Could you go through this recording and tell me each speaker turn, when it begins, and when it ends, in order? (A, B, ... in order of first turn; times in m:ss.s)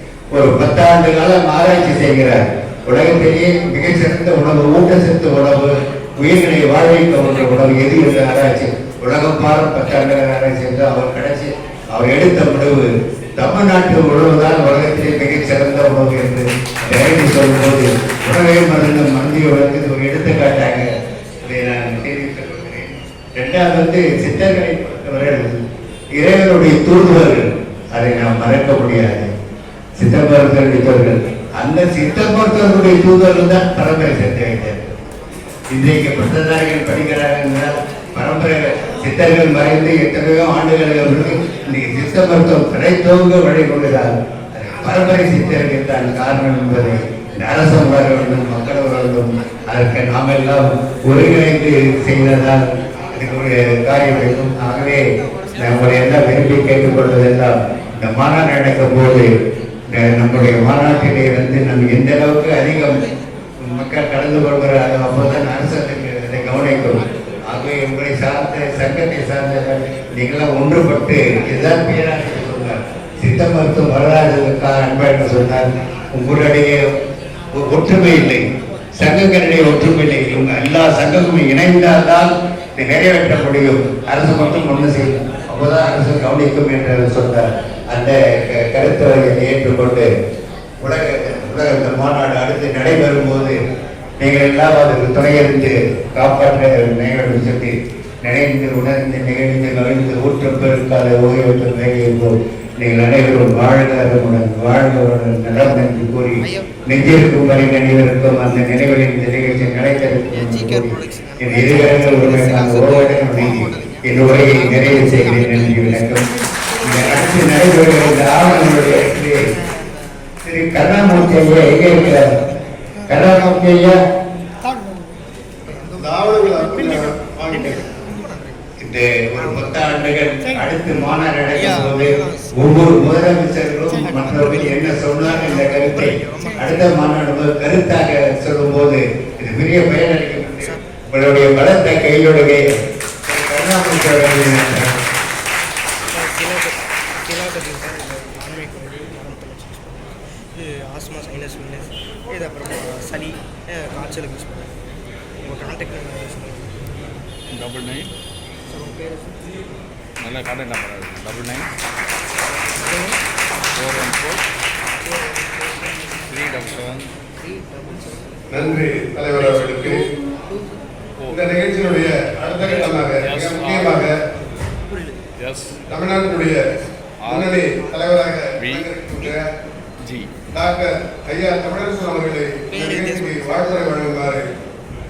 0:00.3-0:20.9 A
0:21.5-0:25.5 A
0:26.2-0:29.3 A
0:30.0-0:34.8 A
0:35.7-0:55.0 A
0:55.5-0:59.3 A
0:59.9-1:03.0 A
1:03.6-1:16.8 A
1:17.5-1:18.4 A
1:19.0-1:30.1 A
1:30.8-1:33.6 A
1:34.2-1:56.2 A
1:50.4-1:54.0 B
1:54.7-1:55.9 B
1:56.8-1:59.4 A
1:58.2-2:00.0 B
2:00.4-2:02.3 A
2:01.9-2:02.6 B
2:03.1-2:03.9 A
2:05.7-2:06.6 B
2:06.0-2:07.8 C
2:07.6-2:08.6 B
2:08.8-2:22.6 A
2:11.8-2:12.4 B
2:15.6-2:16.8 B
2:23.3-2:24.9 A
2:26.1-2:34.8 B
2:35.4-2:37.1 B
2:37.5-2:38.1 D
2:38.7-2:39.6 B
2:40.2-2:41.7 D
2:42.7-2:43.2 B
2:43.7-2:44.4 D
2:45.0-2:46.3 B
2:46.3-2:47.1 D
2:47.4-2:48.6 B
2:48.5-2:50.0 C
2:49.3-2:50.0 B
2:51.2-2:51.4 D
2:51.3-2:54.2 C
2:52.7-2:54.1 D
2:54.9-2:55.2 B
2:55.4-2:55.8 D
2:55.9-2:56.6 C
2:57.2-2:57.6 D
2:57.2-2:59.4 C
2:58.6-2:58.9 D
3:00.0-3:00.3 D
3:00.5-3:04.4 C
3:02.7-3:04.1 B